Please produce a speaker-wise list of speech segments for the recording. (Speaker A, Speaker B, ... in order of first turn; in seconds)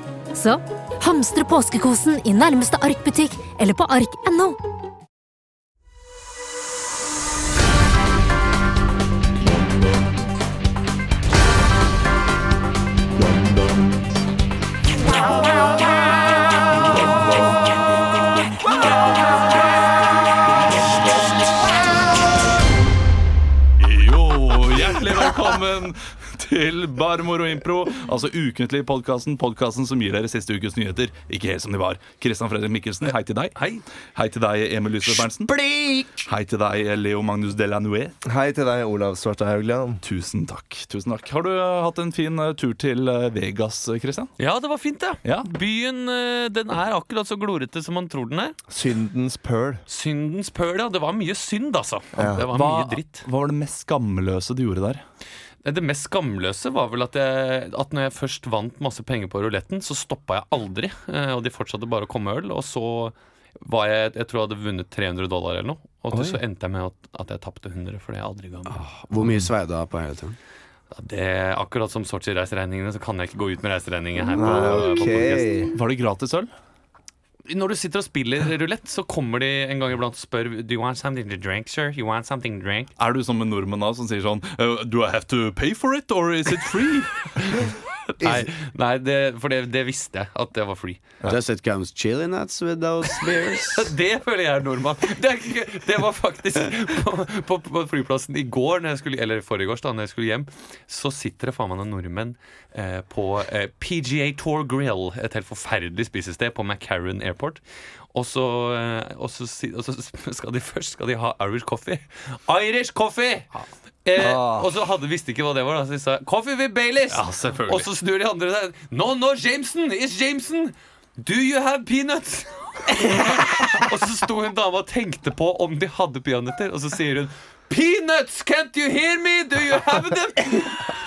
Speaker A: 0.3-4.5
Speaker B: 23.8-35.6, 36.2-38.1, 40.0-44.3, 45.2-45.5, 52.3-55.0, 74.5-76.5, 83.0-87.6, 114.1-114.7, 117.1-117.8
Speaker C: 35.0-36.2, 68.7-70.3, 91.2-93.9
Speaker D: 38.2-40.0, 48.7-49.8, 52.1-52.5, 66.1-66.4, 74.3-75.7, 88.2-88.5
Speaker E: 44.4-48.5, 49.9-53.3, 55.6-68.8, 70.9-75.7, 77.5-82.9, 88.1-91.2, 93.7-113.5, 114.0-130.8